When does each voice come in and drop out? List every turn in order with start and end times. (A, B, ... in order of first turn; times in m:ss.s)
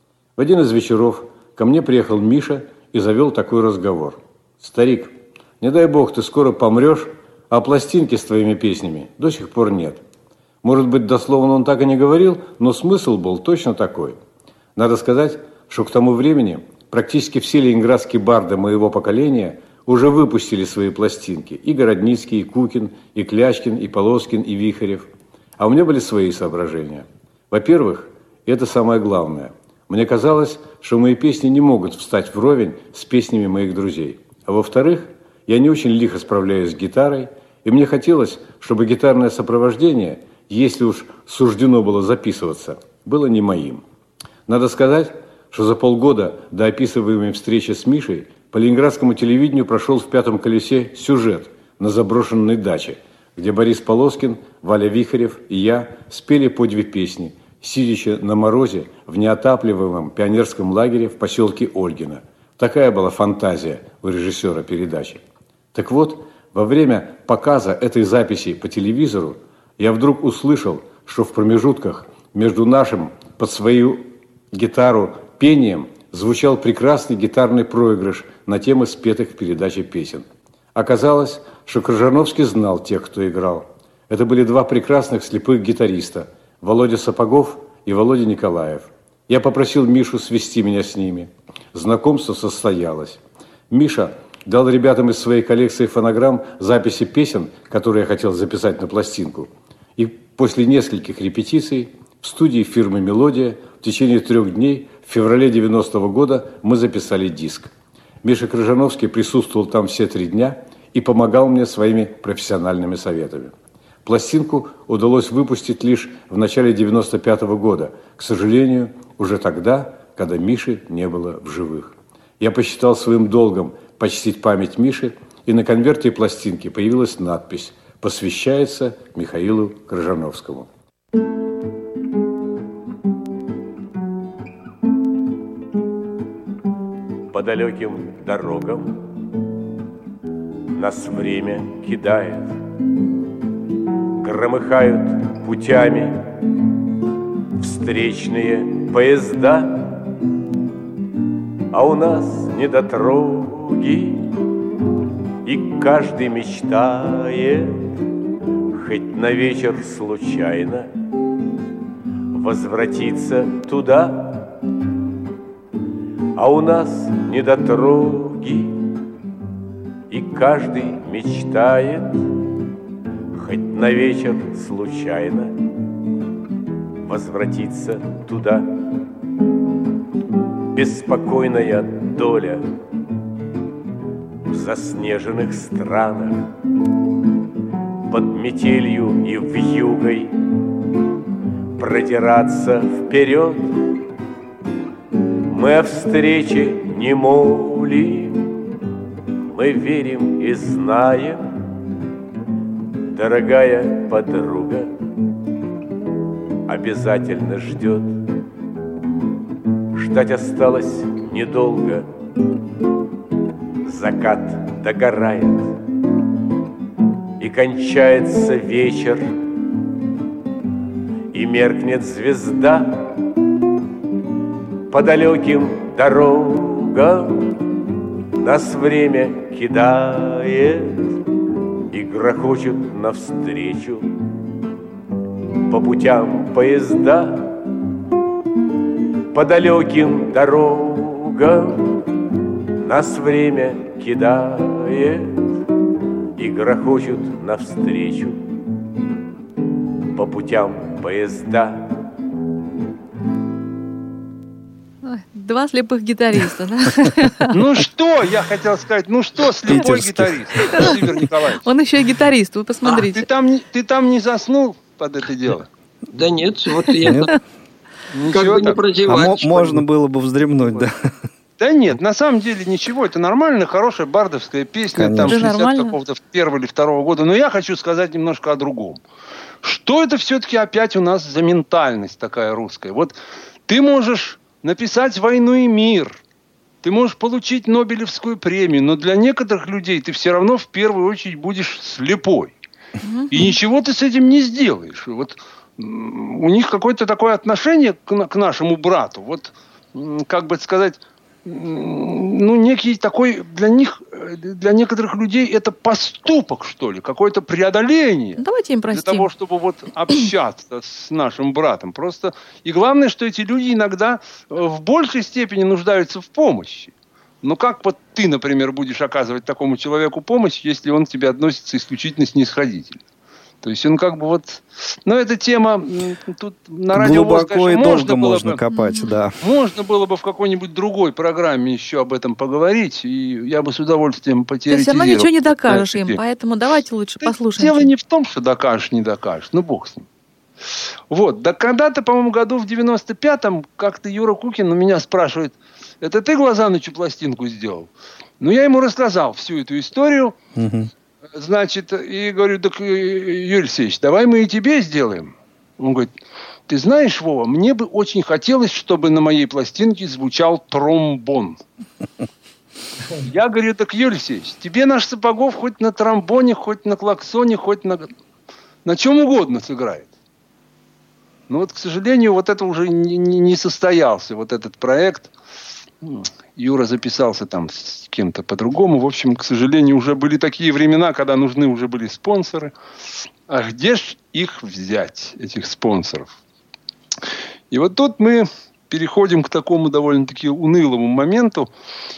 0:00.4-0:10.0 A
0:10.6-0:14.2 A
0:14.8-0:43.8 A
0:44.5-1:47.7 A
1:48.2-1:53.5 A
1:54.0-2:10.7 A
2:17.3-2:19.0 B
2:20.8-2:22.6 B
2:24.2-2:26.2 B
2:27.6-2:30.0 B
2:31.7-2:34.2 B
2:35.4-2:37.8 B
2:38.7-2:40.9 B
2:42.3-2:44.5 B
2:46.4-2:48.8 B
2:50.1-2:52.1 B
2:53.3-2:55.5 B
2:57.1-2:58.7 B
3:00.8-3:02.6 B
3:04.5-3:06.5 B
3:08.1-3:10.3 B
3:11.8-3:13.8 B
3:15.5-3:18.4 B
3:19.5-3:21.4 B
3:23.1-3:24.9 B
3:26.7-3:28.2 B
3:29.9-3:32.1 B
3:33.9-3:35.7 B
3:37.4-3:39.3 B
3:41.3-3:42.9 B
3:44.9-3:47.5 B
3:48.4-3:51.1 B
3:51.9-3:54.1 B
3:55.7-3:57.5 B
3:59.3-4:01.9 B
4:02.8-4:05.4 B
4:06.4-4:08.4 B
4:10.2-4:11.9 B
4:15.0-4:17.6 C
4:17.5-4:21.6 D
4:19.7-4:20.9 E
4:21.6-4:23.3 C
4:22.9-4:25.7 D
4:26.1-4:27.3 F
4:27.0-4:27.3 E
4:28.1-4:28.8 D
4:28.3-4:29.8 F
4:29.1-4:31.1 E
4:31.6-4:39.0 D
4:35.0-4:35.5 E
4:35.2-4:35.9 C
4:39.6-4:43.1 D
4:43.7-4:46.2 D
4:46.8-4:52.5 D
4:53.0-4:53.6 C
4:53.3-5:08.4 D
5:08.4-5:09.3 C
5:08.9-5:23.0 D
5:23.6-5:28.6 D
5:26.9-5:29.3 E
5:28.7-5:29.1 C
5:29.4-5:36.2 D
5:34.7-5:37.9 C
5:37.2-5:40.1 D
5:41.1-5:50.4 D
5:50.6-5:50.9 E
5:51.4-5:56.1 D
5:56.7-6:01.6 D
6:03.2-6:08.1 D
6:08.8-6:10.1 D
6:11.5-6:15.3 D
6:16.0-6:22.7 D
6:23.5-6:26.4 D
6:27.7-6:31.7 D